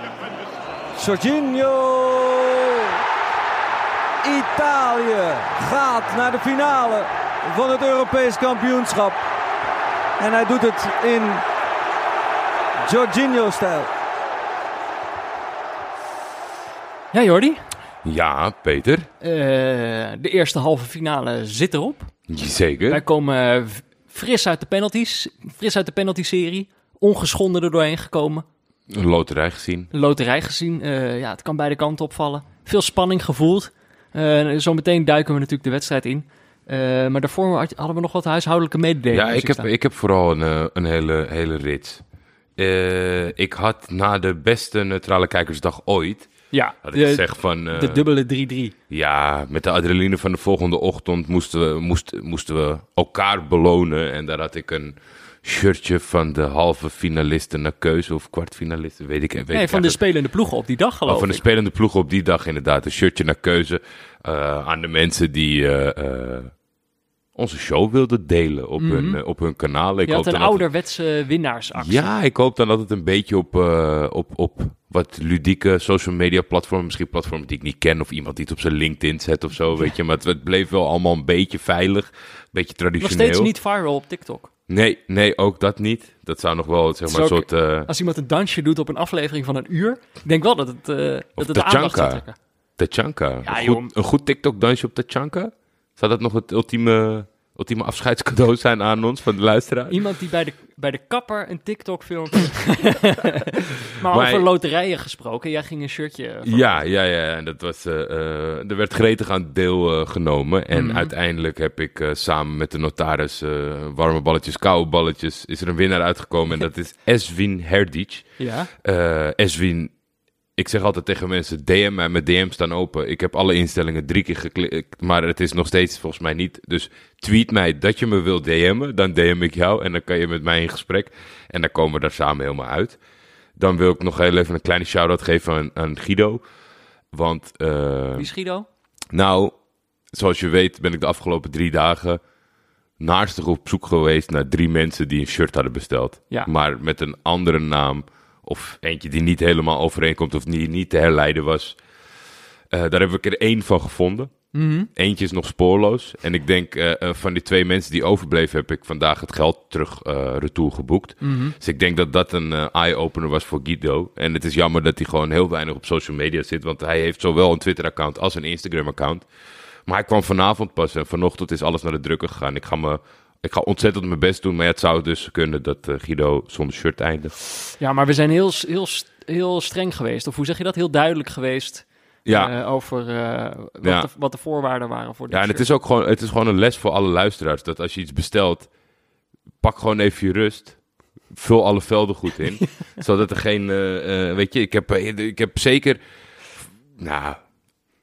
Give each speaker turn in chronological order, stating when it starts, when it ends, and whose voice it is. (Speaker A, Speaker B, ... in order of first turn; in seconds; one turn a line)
Speaker A: 0.9-3.0
Speaker A: 4.2-9.2
Speaker A: 10.2-11.4
Speaker A: 12.8-13.9
Speaker B: 17.1-17.7
Speaker C: 18.0-19.1
Speaker B: 19.2-22.1
Speaker C: 22.3-23.0
Speaker B: 22.9-28.4
Speaker C: 28.9-29.9
Speaker B: 29.9-39.7
Speaker C: 39.1-42.0
Speaker C: 42.6-46.3
Speaker B: 46.5-48.7
Speaker C: 46.8-48.0
Speaker C: 48.9-60.0
Speaker B: 59.5-61.4
Speaker C: 61.0-66.5
Speaker C: 67.3-70.6
Speaker B: 68.8-69.2
Speaker B: 70.0-72.1
Speaker C: 71.7-83.5
Speaker B: 83.0-84.5
Speaker C: 84.7-87.9
Speaker B: 87.1-92.3
Speaker C: 91.4-92.2
Speaker C: 92.8-100.0
Speaker B: 93.4-93.9
Speaker B: 99.9-106.8
Speaker C: 104.0-104.5
Speaker C: 106.4-118.3
Speaker B: 110.7-111.1
Speaker B: 118.4-118.7
Speaker C: 118.8-119.9
Speaker C: 120.6-133.0
Speaker C: 133.6-136.4
Speaker C: 137.1-138.3
Speaker B: 138.2-138.7
Speaker C: 139.1-139.5
Speaker C: 140.1-142.2
Speaker C: 143.0-151.8
Speaker C: 152.7-154.3
Speaker B: 154.5-154.9
Speaker C: 154.9-169.2
Speaker B: 161.2-161.6
Speaker C: 169.8-177.3
Speaker B: 177.8-185.7
Speaker C: 182.2-182.5
Speaker C: 183.8-184.1
Speaker C: 185.3-188.7
Speaker C: 189.6-190.8
Speaker C: 191.3-196.0
Speaker C: 196.6-197.4